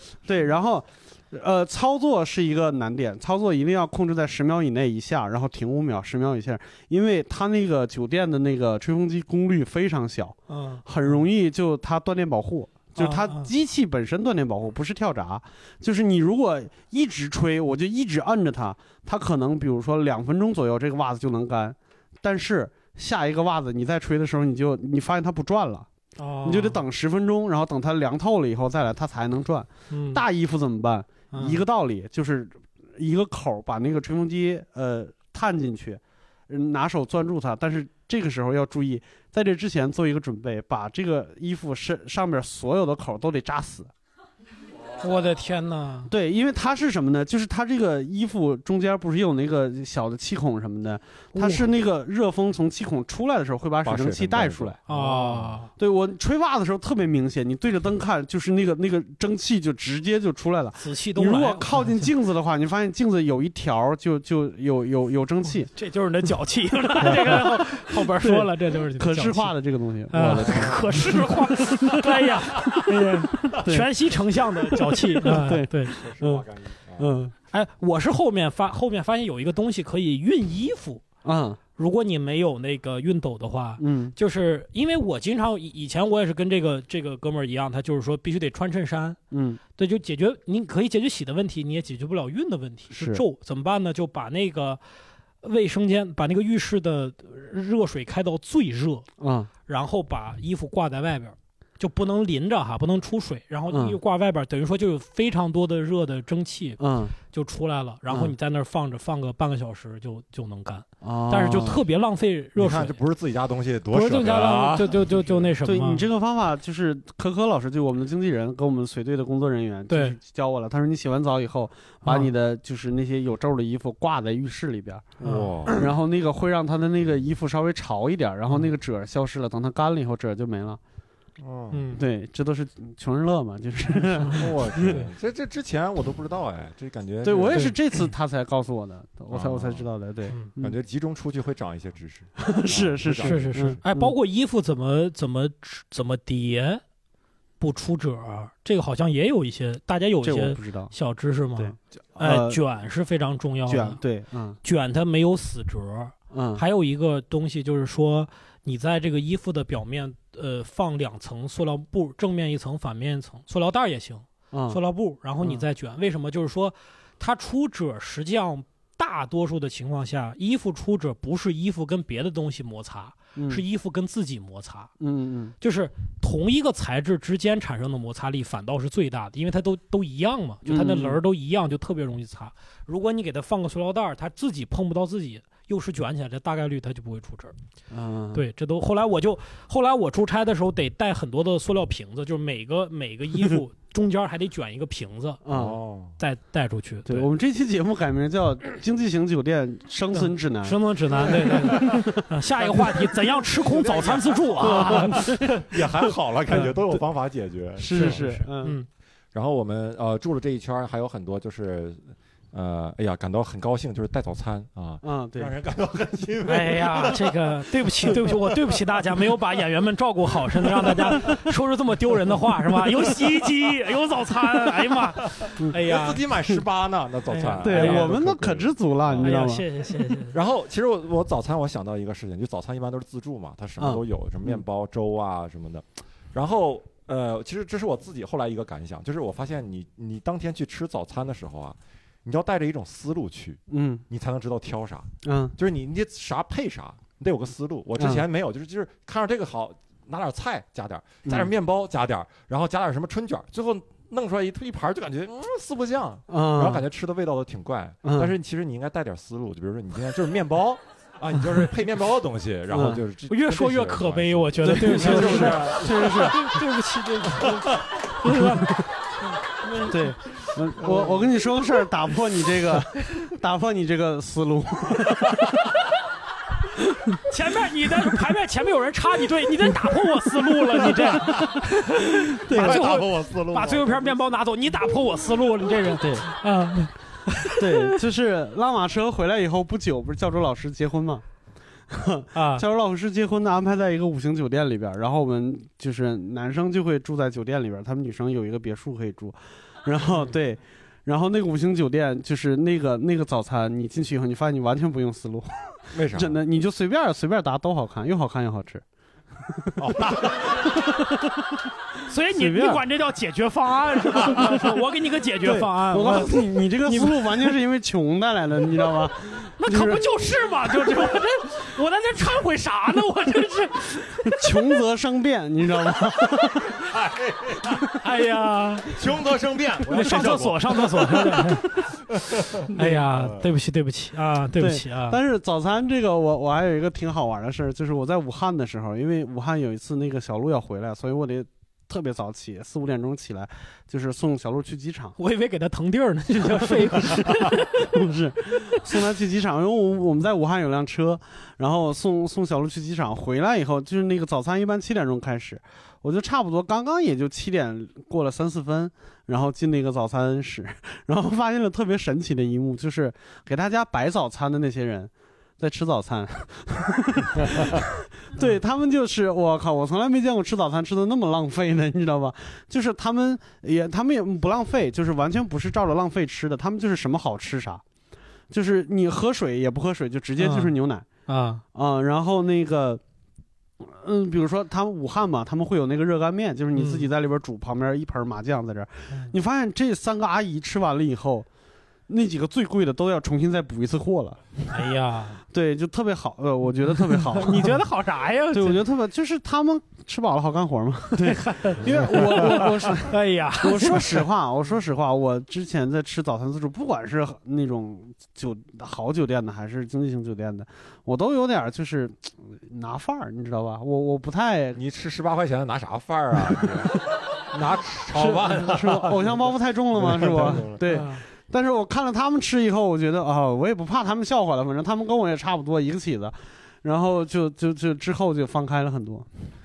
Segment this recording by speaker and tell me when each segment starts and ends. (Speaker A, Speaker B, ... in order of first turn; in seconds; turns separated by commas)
Speaker A: 0.2-25.9, Speaker B: 10.5-10.8, Speaker B: 13.0-13.5, Speaker B: 26.2-26.8, Speaker A: 26.4-43.9, Speaker B: 29.9-30.2, Speaker B: 31.3-31.6, Speaker B: 45.0-46.1, Speaker A: 46.1-54.8, Speaker B: 51.3-51.7, Speaker C: 53.8-55.6, Speaker B: 54.9-55.7, Speaker A: 55.8-65.7, Speaker B: 60.8-62.1, Speaker B: 65.7-69.6, Speaker A: 68.1-71.9, Speaker B: 70.1-76.0, Speaker C: 70.4-71.2, Speaker C: 72.5-72.8, Speaker A: 72.7-73.9, Speaker A: 75.2-76.4, Speaker C: 75.8-77.1, Speaker A: 77.0-77.3, Speaker B: 77.5-81.0, Speaker A: 81.2-81.6, Speaker B: 81.8-89.2, Speaker A: 83.8-84.1, Speaker A: 89.3-89.6, Speaker B: 89.7-94.8, Speaker A: 92.9-93.2, Speaker B: 95.4-99.0, Speaker A: 99.2-99.5, Speaker B: 99.7-113.0, Speaker A: 103.7-104.0, Speaker A: 106.8-107.2, Speaker A: 108.1-108.3, Speaker A: 111.0-111.8, Speaker C: 112.5-115.5, Speaker B: 113.9-116.1, Speaker A: 115.6-125.2, Speaker B: 119.9-120.2, Speaker B: 122.0-122.3, Speaker B: 125.2-125.7, Speaker C: 125.2-125.8, Speaker A: 125.7-130.8, Speaker C: 131.4-131.8, Speaker B: 131.7-132.0, Speaker A: 131.9-135.0, Speaker C: 134.3-137.7, Speaker A: 137.2-140.7, Speaker C: 139.3-139.9, Speaker C: 140.6-143.8, Speaker A: 142.4-144.1, Speaker B: 143.2-146.8, Speaker B: 147.6-154.0, Speaker A: 150.2-150.9, Speaker A: 151.5-152.6, Speaker A: 153.7-154.6, Speaker B: 154.6-174.9, Speaker A: 156.3-156.6, Speaker A: 164.5-164.8, Speaker A: 173.3-173.6, Speaker A: 175.0-175.5, Speaker B: 175.6-187.5, Speaker A: 180.7-181.2, Speaker A: 187.9-188.4, Speaker B: 188.3-195.4, Speaker A: 195.4-195.7, Speaker C: 195.5-196.2, Speaker B: 196.2-197.3, Speaker A: 197.0-203.0, Speaker B: 200.1-205.7, Speaker C: 203.6-208.2, Speaker A: 204.6-205.6, Speaker A: 206.5-207.0, Speaker A: 207.8-208.8, Speaker B: 207.9-208.9, Speaker C: 209.3-217.6, Speaker A: 215.0-215.5, Speaker B: 216.4-226.2, Speaker C: 218.2-218.8, Speaker C: 225.4-229.3, Speaker B: 227.3-228.2, Speaker A: 227.6-229.7, Speaker B: 229.2-230.4, Speaker C: 230.3-266.6, Speaker A: 233.8-234.6, Speaker A: 243.7-244.0, Speaker A: 245.2-245.5, Speaker A: 248.0-248.2, Speaker A: 256.3-256.8, Speaker A: 258.0-258.3, Speaker A: 262.7-263.0, Speaker B: 263.3-270.6, Speaker A: 264.6-266.4, Speaker C: 267.3-267.8, Speaker A: 269.9-275.3, Speaker B: 277.3-288.0, Speaker A: 280.8-281.5, Speaker A: 282.3-282.8, Speaker C: 282.5-284.2, Speaker A: 286.0-286.3, Speaker A: 287.6-291.2, Speaker A: 291.9-308.8, Speaker B: 292.3-292.6, Speaker C: 305.9-306.4, Speaker A: 309.5-310.4, Speaker C: 309.8-310.7, Speaker B: 312.1-317.5, Speaker A: 312.3-312.8, Speaker A: 315.4-320.0, Speaker B: 319.6-324.4, Speaker A: 324.2-326.6, Speaker C: 326.7-327.8, Speaker B: 328.0-329.0, Speaker C: 328.9-333.5, Speaker B: 329.9-331.9, Speaker B: 332.7-335.2, Speaker A: 332.8-333.0, Speaker A: 334.6-345.1, Speaker B: 345.2-347.9, Speaker A: 346.9-377.8, Speaker B: 348.8-349.0, Speaker A: 378.5-381.1, Speaker B: 380.4-380.7, Speaker B: 381.3-381.6, Speaker A: 381.7-383.0, Speaker A: 383.8-391.5, Speaker B: 386.7-387.1, Speaker A: 392.1-394.4, Speaker B: 394.7-395.4, Speaker A: 395.5-397.8, Speaker B: 397.1-398.8, Speaker A: 398.5-414.8, Speaker B: 401.1-404.3, Speaker C: 414.7-420.8, Speaker A: 418.1-429.3, Speaker B: 420.9-421.2